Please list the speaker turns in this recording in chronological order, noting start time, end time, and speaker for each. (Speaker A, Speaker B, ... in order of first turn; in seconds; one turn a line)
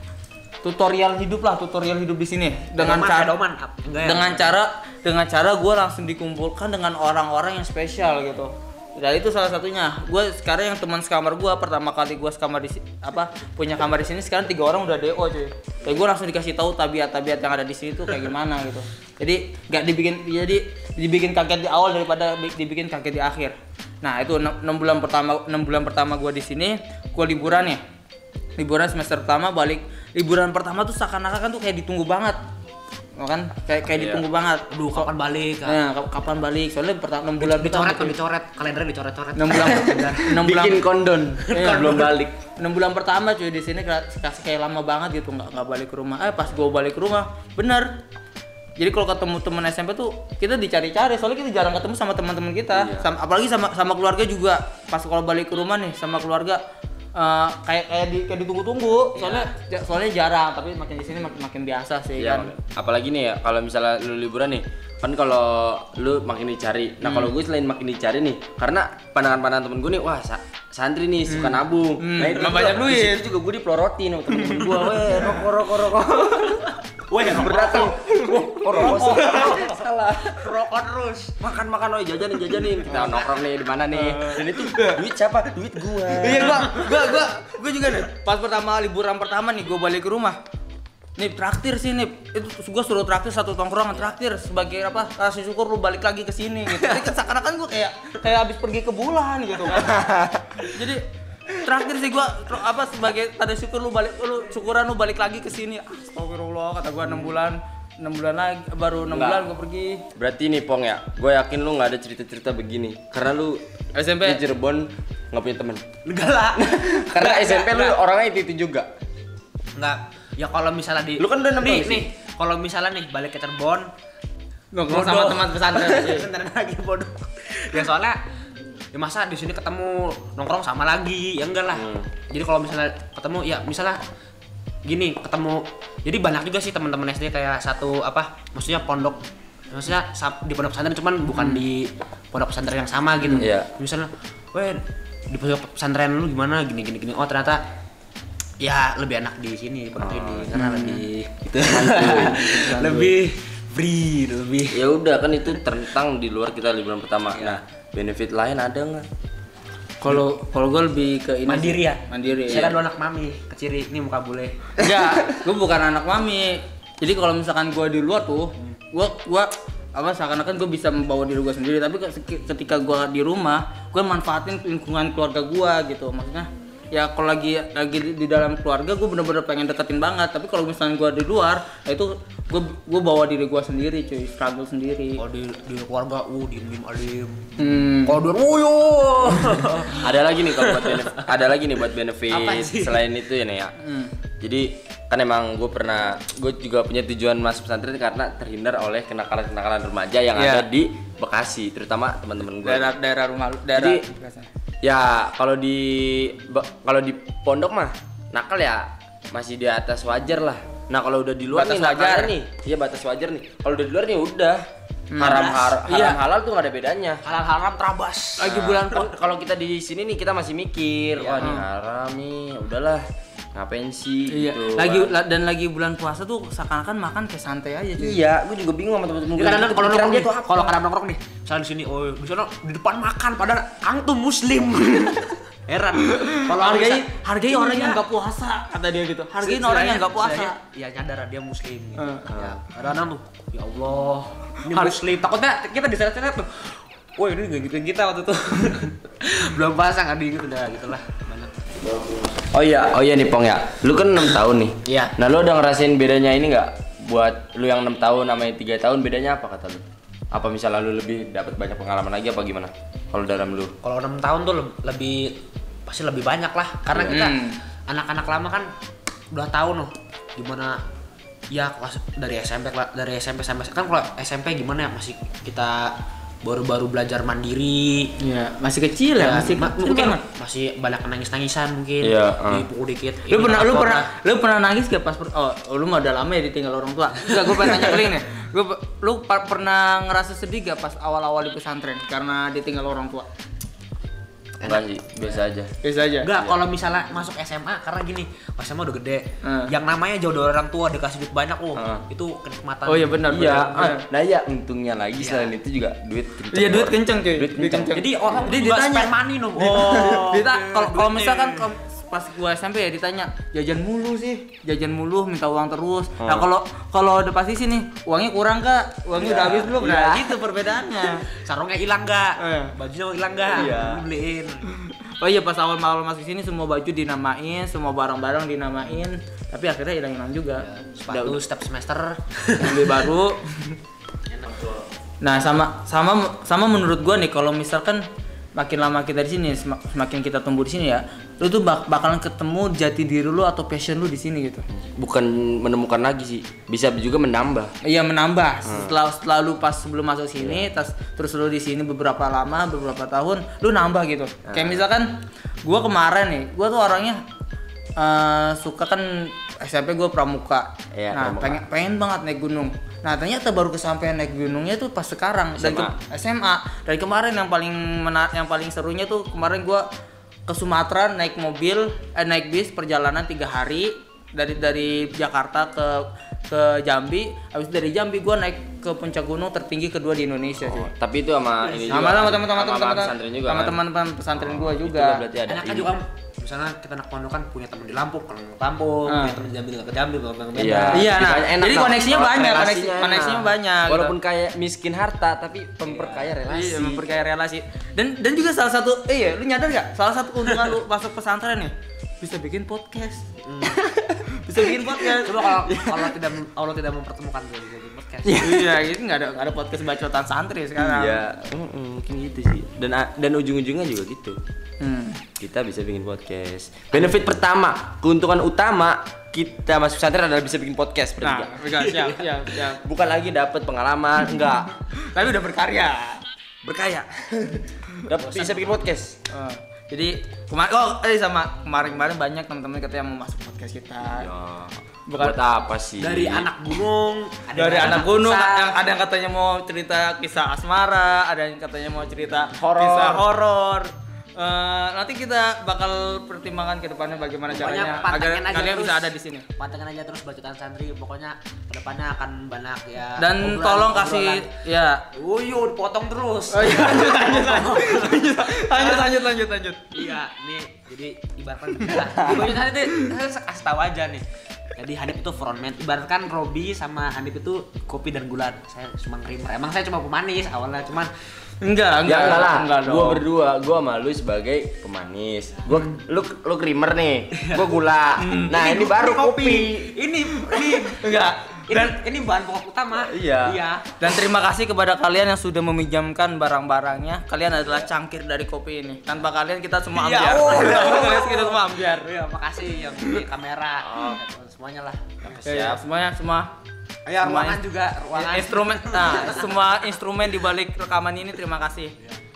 Speaker A: 0.6-3.3
Speaker B: 2.8-4.6
Speaker A: 4.0-27.8
Speaker A: 28.6-32.4
Speaker A: 33.2-35.1
Speaker C: 33.9-34.2
Speaker B: 34.7-35.8
Speaker A: 35.6-38.2
Speaker B: 37.4-40.3
Speaker A: 39.4-40.8
Speaker C: 39.5-42.3
Speaker B: 41.5-42.0
Speaker A: 41.5-47.9
Speaker A: 48.8-56.6
Speaker C: 52.7-53.1
Speaker A: 57.1-62.5
Speaker B: 59.1-59.5
Speaker C: 62.2-76.7
Speaker A: 67.0-67.3
Speaker B: 71.3-71.6
Speaker A: 72.0-73.2
Speaker A: 74.3-75.4
Speaker B: 77.1-77.9
Speaker C: 77.2-80.5
Speaker A: 78.0-79.7
Speaker B: 78.6-81.4
Speaker C: 81.4-86.7
Speaker B: 82.9-83.3
Speaker A: 83.9-85.0
Speaker A: 86.1-90.4
Speaker A: 91.2-99.9
Speaker C: 99.7-100.6
Speaker A: 100.6-101.0
Speaker A: 101.5-110.0
Speaker C: 109.1-109.5
Speaker C: 110.1-113.6
Speaker A: 113.9-114.4
Speaker C: 114.2-115.8
Speaker B: 116.0-118.0
Speaker C: 116.6-118.9
Speaker B: 119.8-123.9
Speaker C: 121.2-122.1
Speaker A: 124.7-126.3
Speaker B: 124.9-128.2
Speaker B: 128.9-134.0
Speaker C: 131.7-132.1
Speaker B: 134.8-147.6
Speaker A: 143.2-143.5
Speaker C: 143.4-143.7
Speaker B: 148.6-154.8
Speaker C: 150.0-150.5
Speaker A: 150.5-151.0
Speaker C: 151.6-152.5
Speaker A: 152.0-153.1
Speaker C: 154.7-159.1
Speaker B: 157.3-157.6
Speaker A: 160.0-162.8
Speaker B: 161.4-165.0
Speaker A: 164.8-185.2
Speaker B: 185.2-187.5
Speaker A: 187.6-188.2
Speaker B: 188.0-191.3
Speaker C: 189.8-193.7
Speaker B: 192.3-193.0
Speaker A: 193.8-194.1
Speaker C: 194.4-202.9
Speaker A: 200.3-200.7
Speaker A: 202.6-204.5
Speaker C: 203.7-204.0
Speaker C: 204.8-214.6
Speaker A: 211.5-212.4
Speaker A: 215.1-216.2
Speaker C: 215.2-217.2
Speaker B: 215.2-215.7
Speaker B: 217.2-218.6
Speaker A: 218.4-219.1
Speaker C: 218.4-223.0
Speaker B: 221.2-221.6
Speaker A: 221.4-221.7
Speaker C: 223.5-225.1
Speaker A: 224.3-228.2
Speaker C: 228.0-230.7
Speaker B: 229.3-238.0
Speaker A: 236.1-240.6
Speaker B: 239.4-251.7
Speaker A: 242.0-242.3
Speaker A: 244.7-245.0
Speaker C: 251.8-263.7
Speaker B: 254.8-255.1
Speaker B: 263.8-268.7
Speaker C: 266.9-267.2
Speaker A: 267.1-267.6
Speaker B: 269.3-270.8
Speaker B: 271.5-278.1
Speaker A: 278.2-280.2
Speaker B: 279.2-284.1
Speaker C: 282.0-282.7
Speaker A: 283.3-293.3
Speaker B: 294.6-295.4
Speaker C: 294.6-295.7
Speaker A: 295.8-296.3
Speaker B: 296.2-303.6
Speaker C: 296.3-296.6
Speaker A: 299.4-299.7
Speaker C: 301.8-302.0
Speaker A: 302.9-304.1
Speaker C: 303.3-308.0
Speaker B: 305.2-305.6
Speaker A: 306.5-321.2
Speaker B: 307.9-311.7
Speaker C: 316.2-316.5
Speaker B: 319.1-320.4
Speaker B: 321.0-324.7
Speaker A: 322.4-322.7
Speaker C: 323.5-324.1
Speaker A: 324.7-331.4
Speaker B: 330.6-333.1
Speaker A: 332.6-333.4
Speaker B: 334.3-334.7
Speaker C: 334.4-334.8
Speaker A: 335.2-338.0
Speaker A: 338.6-344.6
Speaker C: 344.9-347.7
Speaker A: 347.8-355.1
Speaker C: 348.6-348.9
Speaker C: 350.4-350.7
Speaker C: 354.5-354.8
Speaker A: 355.6-357.2
Speaker A: 358.0-369.8
Speaker C: 360.9-361.6
Speaker C: 365.6-365.9
Speaker A: 370.5-380.9
Speaker C: 380.6-383.8
Speaker A: 381.9-385.2
Speaker C: 384.3-385.9
Speaker B: 385.5-391.1
Speaker A: 389.1-389.4
Speaker C: 390.5-397.0
Speaker A: 390.9-394.1
Speaker B: 395.9-396.3
Speaker A: 396.4-405.6
Speaker B: 403.4-403.8
Speaker B: 405.2-408.6
Speaker C: 405.7-406.1
Speaker A: 408.2-411.2
Speaker C: 410.8-414.4
Speaker A: 414.8-415.2
Speaker C: 415.4-421.6
Speaker A: 421.2-422.8
Speaker C: 422.7-424.7
Speaker A: 425.0-426.2
Speaker C: 426.6-429.2
Speaker B: 428.2-428.8
Speaker A: 429.3-434.3
Speaker C: 434.0-436.5
Speaker A: 435.1-435.4
Speaker B: 436.0-438.8
Speaker A: 437.6-449.4
Speaker C: 442.6-443.2
Speaker B: 447.5-454.6
Speaker A: 453.2-455.1
Speaker B: 455.1-459.1
Speaker A: 456.5-459.9
Speaker B: 459.9-464.2
Speaker A: 461.9-462.4
Speaker B: 464.7-471.1
Speaker A: 471.6-473.2
Speaker C: 472.0-479.9
Speaker B: 477.4-477.6
Speaker A: 478.2-478.9
Speaker B: 478.6-481.1
Speaker A: 480.4-481.9
Speaker B: 481.6-484.0
Speaker C: 482.9-483.6
Speaker A: 484.0-492.1
Speaker B: 489.9-495.6
Speaker A: 495.4-496.5
Speaker C: 495.4-495.8
Speaker B: 497.1-499.9
Speaker A: 497.2-497.6
Speaker A: 498.1-501.9